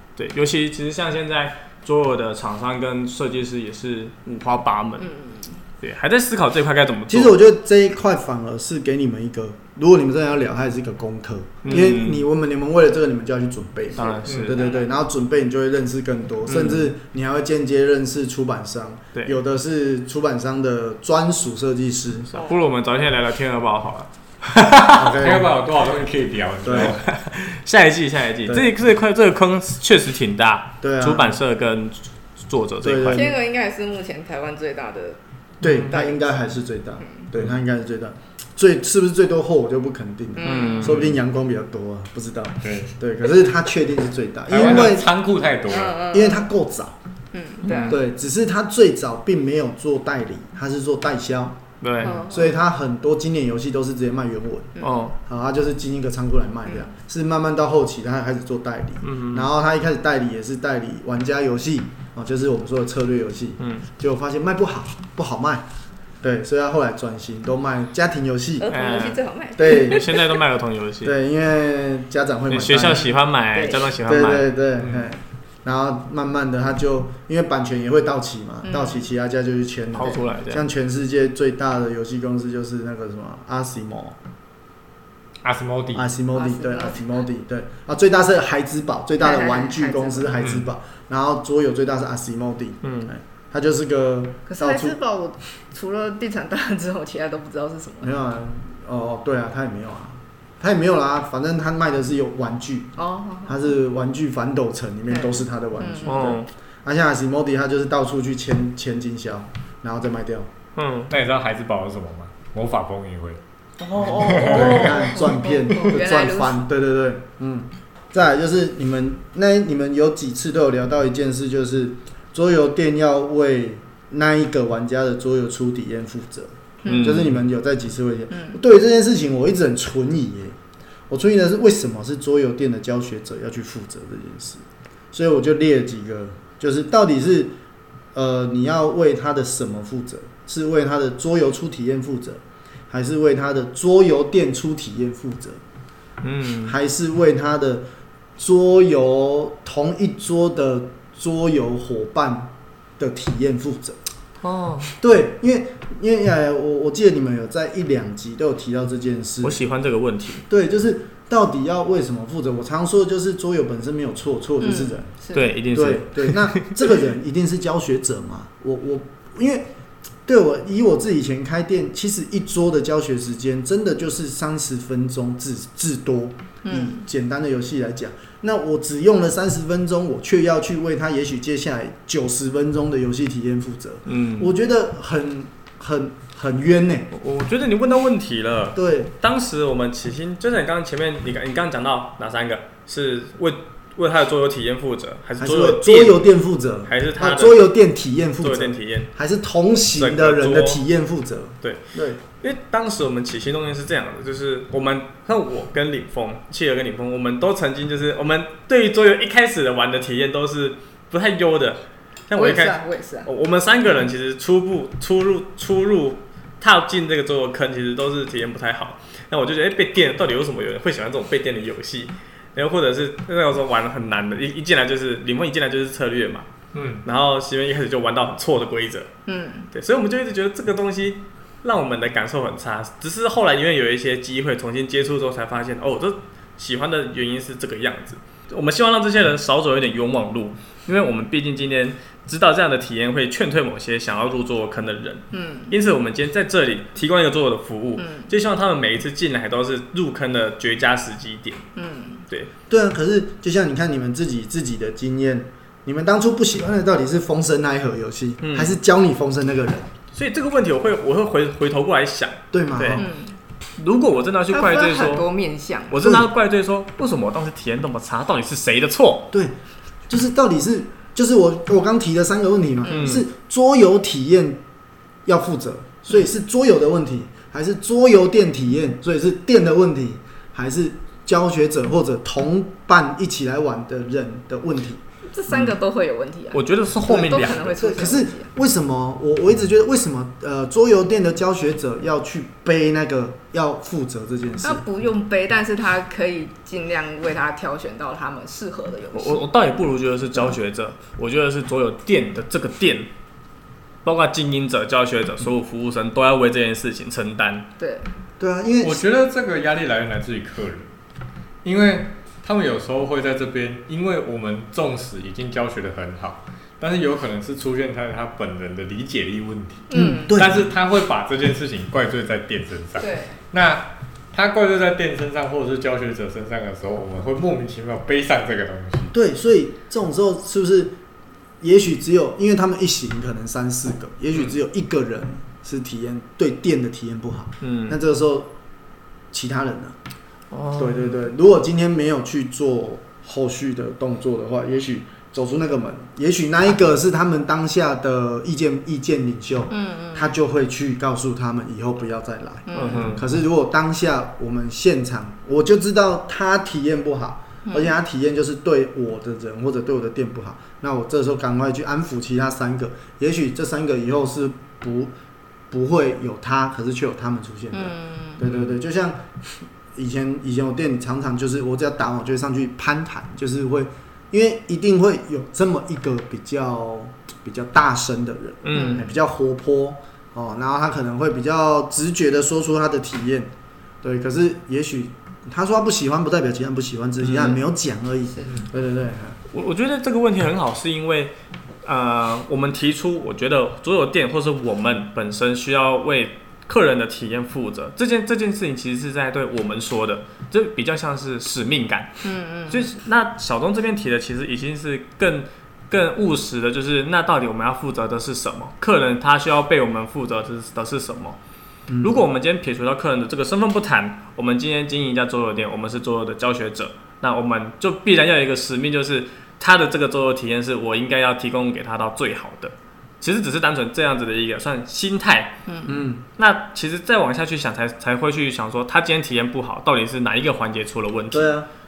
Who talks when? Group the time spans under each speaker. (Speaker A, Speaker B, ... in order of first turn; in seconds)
Speaker A: 0.2-5.1, 5.8-7.4, 11.6-12.2, 14.0-14.7, 16.5-16.9, 22.3-25.1, 26.8-33.4, 35.6-36.1, 40.4-41.0, 47.6-48.0, 51.8-52.2, 54.8-55.2, 59.0-59.5, 68.7-71.1, 72.5-74.5, 80.0-80.6, 92.8-93.1, 106.1-106.5, 110.8-111.1, 126.8-127.3, 146.2-146.8, 154.4-154.9, 159.4-160.4, 165.3-166.9, 184.1-184.5, 187.1-196.2, 196.9-197.7, 198.4-199.1, 200.0-200.8, 202.4-226.5, 227.0-229.1, 229.7-251.7, 258.4-258.8, 260.1-263.1, 263.8-265.3, 265.9-269.3, 272.9-273.3, 286.5-287.8, 299.1-303.1, 304.1-307.7, 337.6-338.0, 340.5-341.2, 352.7-353.2, 378.6-379.1, 387.2-387.6, 389.5-391.3, 391.8-411.4, 412.0-425.6, 426.4-431.6
Speaker B: 5.0-5.6, 14.0-14.9, 22.3-22.6, 33.1-35.2, 40.4-41.0, 45.7-46.5, 47.3-48.0, 52.0-52.6, 54.8-55.1, 68.6-70.4, 73.5-73.9, 78.6-79.0, 86.3-87.1, 89.2-90.3, 94.5-98.1, 103.0-103.8, 105.1-106.4, 113.8-116.6, 126.8-127.3, 128.3-128.6, 164.6-165.6, 176.7-177.0, 212.3-213.3, 229.3-229.7, 245.3-245.7, 248.0-248.3, 251.8-252.2, 263.0-263.4, 264.5-266.0, 272.9-273.2, 285.3-288.5, 294.6-299.5, 307.8-308.1, 319.9-320.4, 323.0-323.4, 349.7-350.4, 352.7-353.2, 357.7-357.9, 367.7-368.4, 378.7-379.1, 402.2-402.9, 425.7-425.9
Speaker C: 7.1-22.3, 24.9-25.4, 26.6-27.0, 28.5-28.7, 30.8-31.4, 32.8-33.3, 35.6-45.1, 46.1-47.0, 47.9-51.6, 52.2-65.7, 66.2-68.7, 69.6-70.0, 71.0-73.1, 74.1-84.2, 85.9-95.0, 98.0-102.9, 103.5-110.5, 114.0-130.6, 131.1-134.6, 135.1-137.6, 138.2-145.6, 146.7-147.9, 148.4-154.0, 154.9-159.6, 160.5-165.1, 165.7-169.7, 170.3-187.1, 188.8-189.1, 195.4-202.2, 252.7-259.9, 262.5-263.1, 266.0-266.3, 270.1-274.6, 275.2-285.0, 287.7-294.8, 308.4-309.0, 319.9-320.7, 329.1-331.0, 331.6-338.5, 339.3-339.9, 340.8-365.1, 365.7-369.2, 369.9-383.5, 384.0-389.4, 411.9-412.2, 425.9-426.2, 431.3-431.7
Speaker D: 25.2-27.0, 40.8-41.2, 42.6-42.9, 44.5-46.0, 74.8-75.1, 85.4-86.1, 90.4-90.7, 111.1-113.4, 114.0-115.1, 226.7-227.0, 308.8-310.9, 311.6-329.1